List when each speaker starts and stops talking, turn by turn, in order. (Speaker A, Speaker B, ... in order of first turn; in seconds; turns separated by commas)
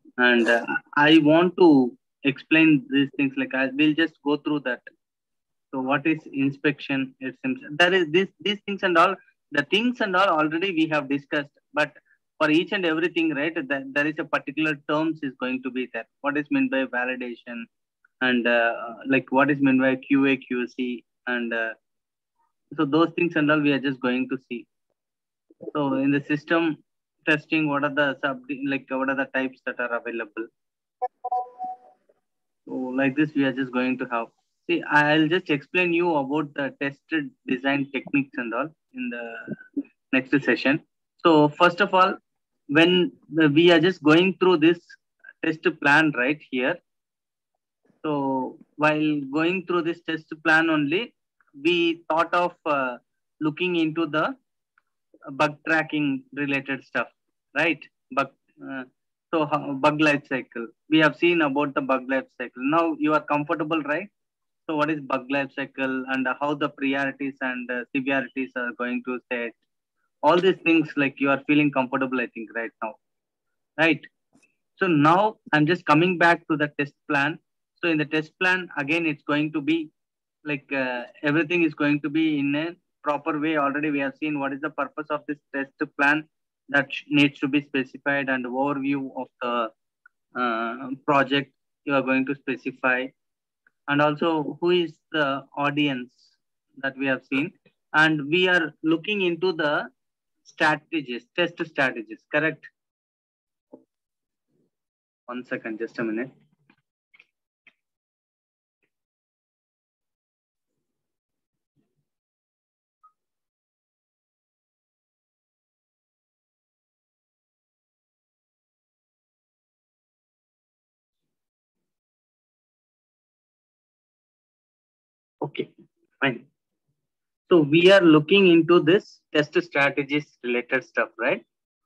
Speaker A: 0.2-4.9, Speaker A: 5.7-17.7, Speaker A: 18.2-21.8, Speaker A: 22.7-24.7, Speaker A: 25.7-30.5, Speaker A: 32.7-42.2, Speaker A: 42.7-46.8, Speaker A: 48.0-54.4, Speaker A: 55.3-64.1, Speaker A: 64.7-69.5, Speaker A: 70.2-73.0, Speaker A: 73.8-74.1, Speaker A: 74.8-79.9, Speaker A: 80.5-89.7, Speaker A: 90.4-93.1, Speaker A: 93.9-99.9, Speaker A: 100.5-102.7, Speaker A: 105.3-106.3, Speaker A: 125.4-126.5, Speaker A: 127.5-131.4